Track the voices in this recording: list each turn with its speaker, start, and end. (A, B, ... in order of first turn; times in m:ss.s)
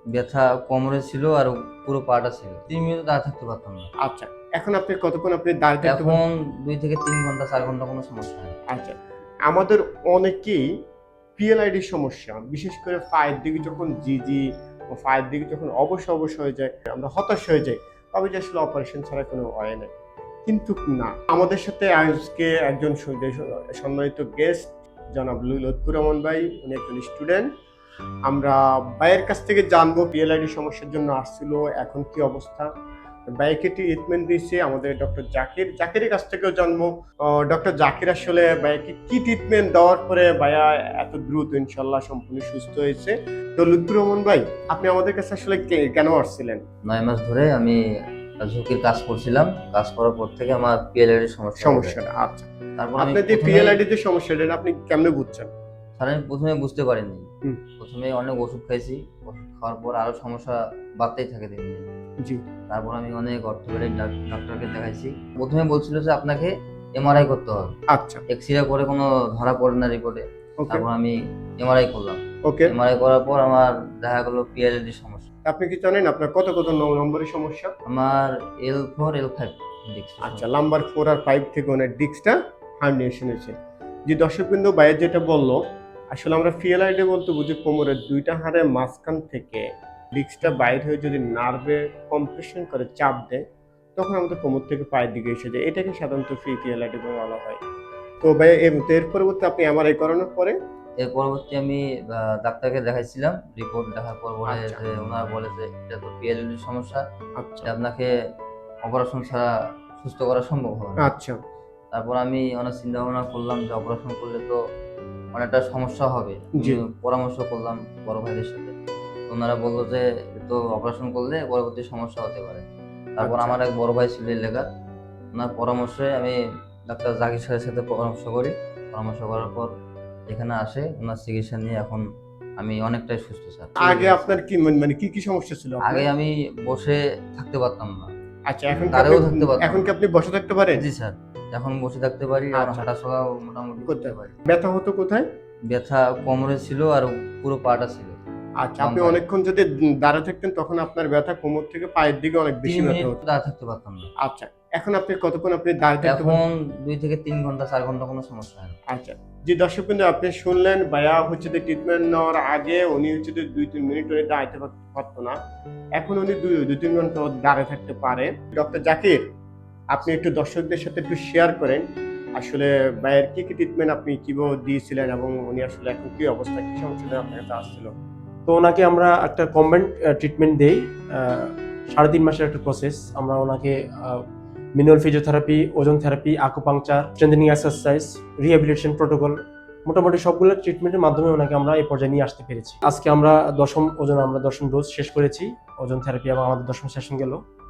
0:00.1-0:03.9 A
0:04.0-0:06.2 B
0:05.9-0:08.6 A
0:08.7-0:10.6 B
0:11.4-0:19.9 B
0:20.4-0:27.5 B
0:28.3-0:32.7 B
0:33.4-0:46.6 B
0:46.9-0:47.8 A
0:48.4-0:52.0 A
0:51.6-0:55.5 B
0:52.8-0:53.8 A
0:56.0-1:01.8 A
1:02.7-1:07.7 A
1:07.9-1:08.2 B
1:08.3-1:15.3 A
1:10.6-1:10.8 B
1:12.4-1:12.7 B
1:15.4-1:17.7 B
1:17.9-1:20.5 A
1:20.2-1:23.5 B
1:24.1-1:25.6 B
1:26.1-1:33.4 B
1:34.0-1:37.6 B
1:38.2-1:40.6 B
1:41.0-1:47.0 A
1:44.5-1:44.8 B
1:47.4-1:47.7 B
1:47.6-1:48.1 A
1:48.9-1:51.1 A
1:51.0-1:51.4 B
1:51.9-1:54.6 A
1:55.3-1:58.7 A
1:59.3-2:02.6 A
2:03.2-2:04.6 A
2:03.2-2:03.6 B
2:05.3-2:06.4 A
2:06.9-2:09.7 A
2:10.3-2:12.0 A
2:12.6-2:14.3 A
2:13.8-2:16.0 B
2:15.9-2:18.1 A
2:18.5-2:20.8 B
2:18.9-2:19.9 A
2:20.7-2:24.3 A
2:22.5-2:22.9 B
2:23.8-2:25.2 B
2:25.7-2:28.2 A
2:28.6-2:33.2 B
2:28.8-2:29.2 A
2:32.6-2:34.1 A
2:34.2-2:36.4 B
2:36.1-2:38.8 A
2:38.9-2:45.4 B
2:46.0-2:49.2 B
2:49.9-2:51.8 B
2:52.4-2:57.9 B
2:58.4-3:04.2 C
3:04.8-3:17.4 C